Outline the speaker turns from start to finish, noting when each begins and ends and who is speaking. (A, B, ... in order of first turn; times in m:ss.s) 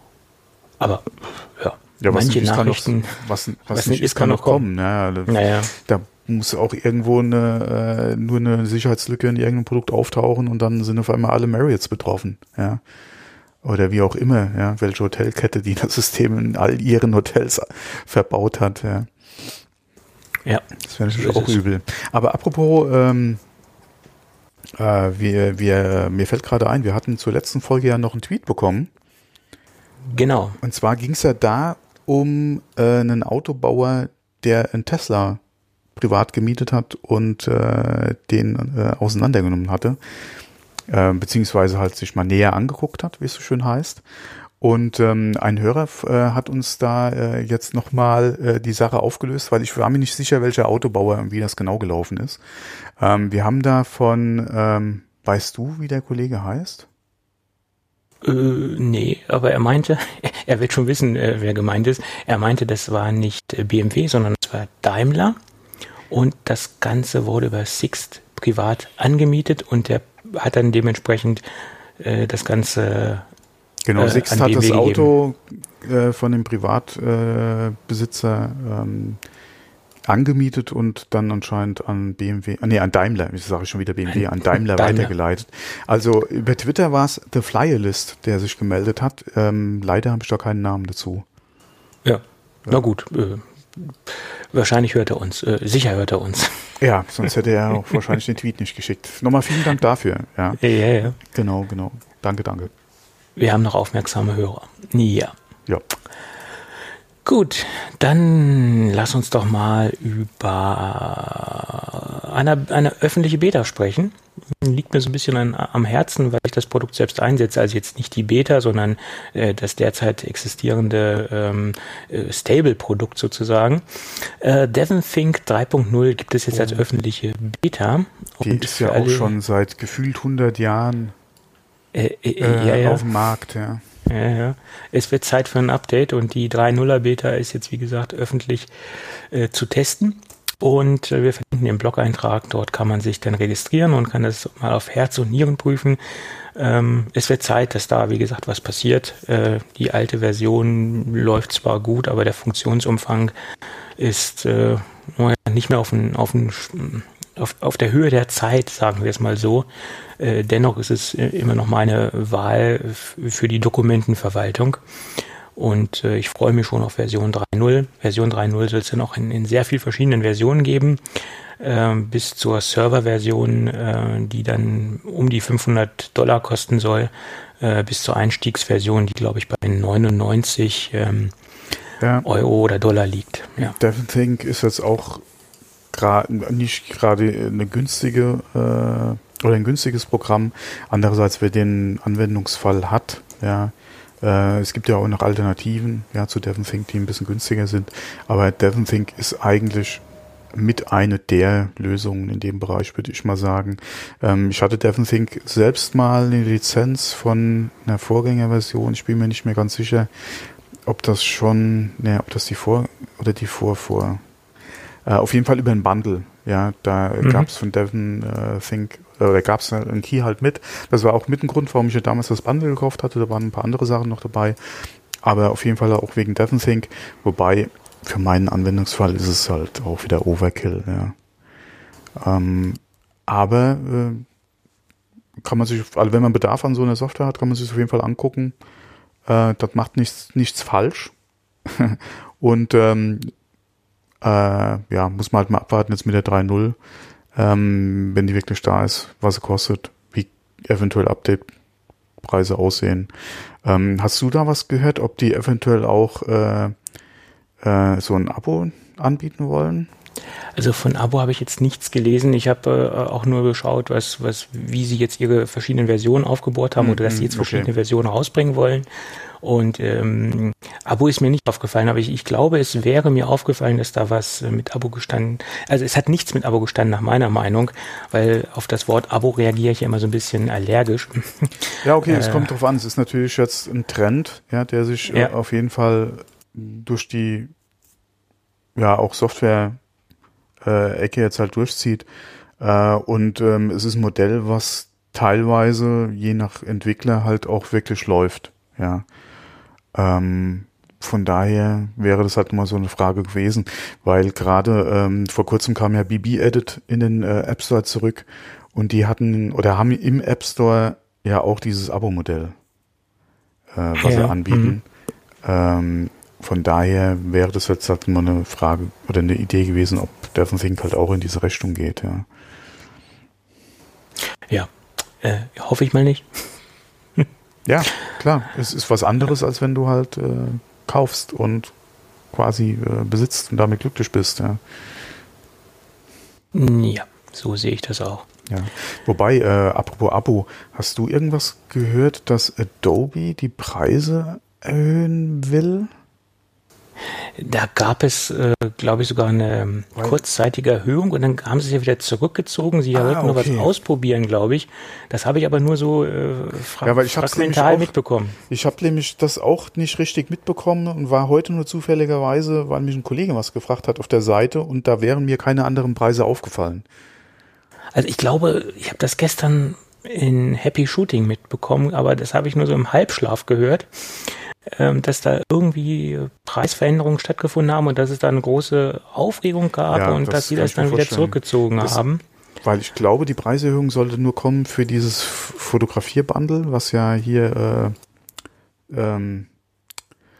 0:00.8-0:04.6 A
0:02.0-0:12.8 B
0:05.2-0:05.7 A
0:13.6-0:19.1 B
0:20.4-0:21.6 A
0:20.8-0:23.4 B
0:24.8-0:28.9 B
0:30.1-0:30.6 A
0:30.6-0:35.4 B
0:36.0-0:40.0 B
0:40.9-0:44.0 B
0:44.6-0:52.4 B
0:53.0-0:56.9 B
0:58.2-1:05.4 A
1:06.1-1:11.4 A
1:12.0-1:13.2 A
1:13.8-1:19.2 B
1:14.0-1:15.1 A
1:20.1-1:31.2 B
1:24.1-1:25.1 A
1:32.0-1:36.7 A
1:36.8-1:40.6 B
1:40.6-1:41.2 A
1:41.1-1:42.7 B
1:43.4-1:45.3 A
1:47.2-2:09.3 A
2:06.5-2:06.8 B
2:08.4-2:11.1 B
2:11.9-2:13.0 A
2:12.4-2:13.8 B
2:14.0-2:26.0 A
2:26.5-2:33.3 A
2:34.0-2:39.7 A
2:40.2-2:44.8 A
2:45.6-2:51.0 A
2:51.6-3:01.3 A
3:02.0-3:02.3 B
3:02.2-3:03.8 A
3:03.6-3:05.2 B
3:05.9-3:34.2 B
3:35.0-3:51.2 B
3:37.2-3:37.5 A
3:52.2-3:54.2 B
3:55.4-3:58.6 B
3:59.2-4:01.1 B
4:01.6-4:03.3 B
4:04.2-4:06.8 B
4:07.3-4:11.5 B
4:12.2-4:13.1 B
4:13.6-4:16.8 B
4:17.6-4:19.9 B
4:20.6-4:28.9 A
4:26.8-4:27.7 B
4:29.4-4:42.5 A
4:41.8-4:47.5 B
4:45.1-4:45.3 A
4:48.8-4:49.8 B
4:50.6-4:52.1 B
4:52.6-4:59.0 B
4:59.9-5:12.6 B
5:13.7-5:14.8 B
5:14.0-5:14.8 A
5:15.4-5:22.3 B
5:24.5-5:26.5 A
5:27.6-5:31.7 B
5:32.3-5:34.6 B
5:36.5-5:38.2 A
5:38.5-5:45.9 B
5:47.4-5:58.4 A
5:49.9-5:50.2 B
5:52.9-5:53.7 B
5:56.8-5:57.9 B
5:58.5-6:06.8 B
6:07.9-6:22.2 A
6:19.9-6:22.0 B
6:22.6-6:27.9 B
6:28.9-6:29.5 B